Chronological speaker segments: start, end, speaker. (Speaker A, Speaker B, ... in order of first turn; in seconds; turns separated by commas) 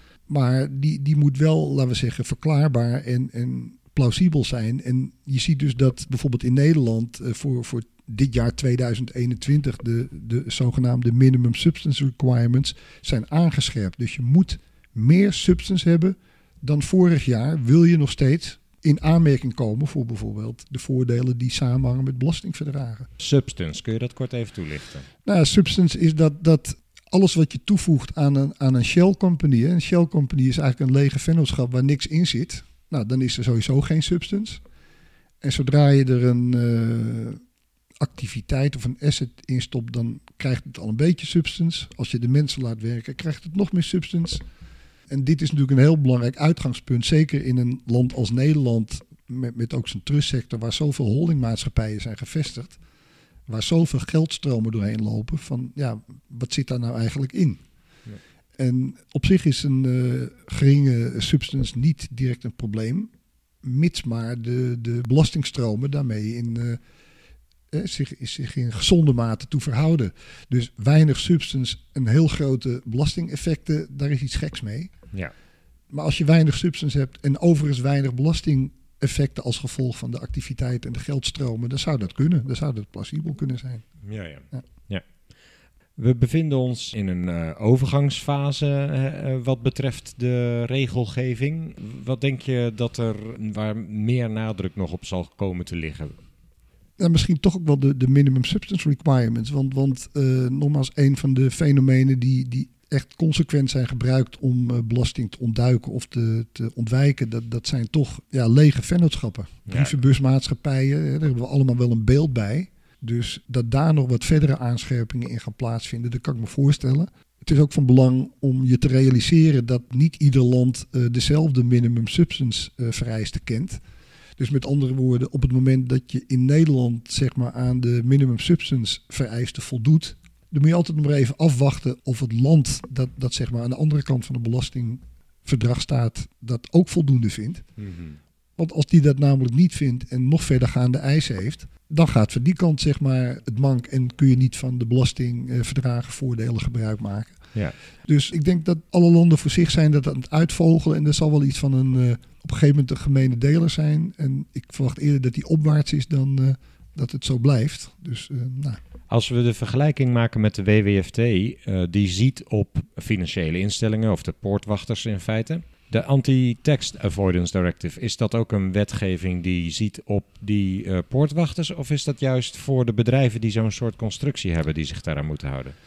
Speaker A: 0.3-23.1, Speaker B: 23.2-25.1, Speaker A: 25.2-34.6, Speaker A: 35.4-37.4, Speaker A: 38.0-44.4, Speaker A: 45.1-52.8, Speaker A: 53.5-57.6, Speaker A: 58.6-63.1, Speaker A: 63.6-66.8, Speaker A: 67.7-74.9, Speaker A: 75.9-83.8, Speaker B: 84.0-85.0, Speaker B: 86.0-96.1, Speaker A: 97.0-123.8, Speaker B: 109.7-109.9, Speaker A: 124.4-137.6, Speaker B: 137.8-138.2, Speaker A: 138.6-147.4, Speaker A: 148.0-158.8, Speaker B: 159.1-175.7